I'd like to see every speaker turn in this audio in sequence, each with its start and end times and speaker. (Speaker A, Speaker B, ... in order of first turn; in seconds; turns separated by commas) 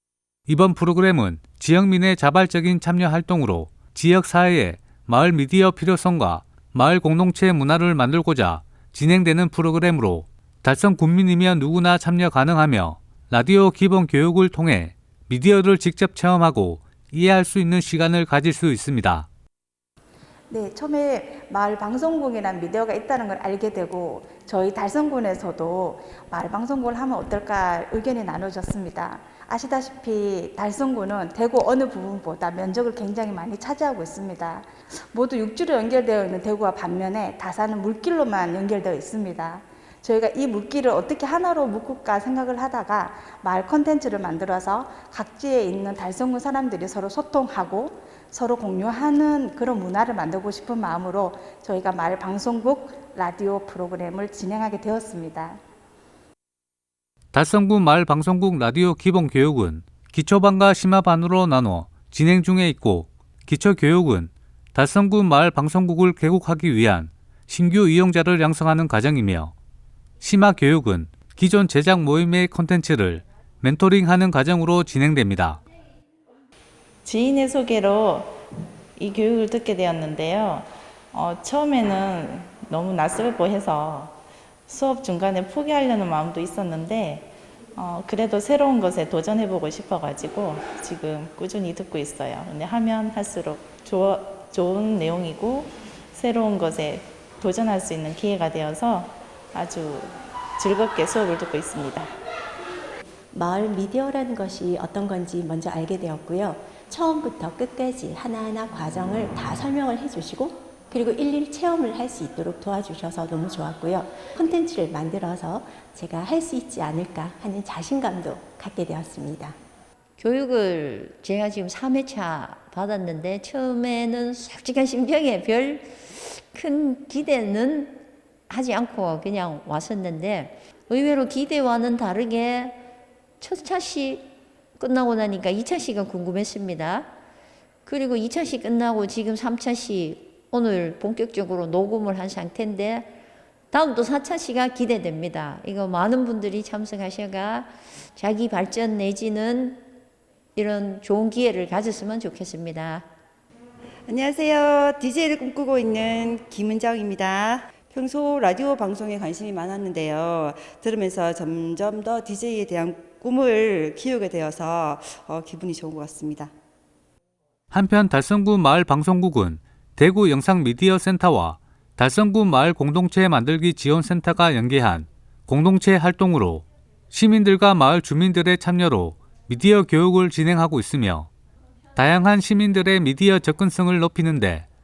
Speaker A: 0.5-19.3, Speaker B: 20.5-55.6, Speaker A: 57.3-69.5, Speaker A: 70.2-75.6, Speaker C: 77.0-78.4, Speaker C: 79.0-102.1, Speaker D: 103.3-119.5, Speaker E: 120.2-132.8, Speaker E: 133.4-134.3, Speaker E: 134.8-137.1, Speaker E: 137.8-143.1, Speaker E: 143.7-149.8, Speaker E: 150.6-153.1, Speaker F: 154.1-166.5, Speaker A: 167.7-181.3, Speaker A: 182.0-184.7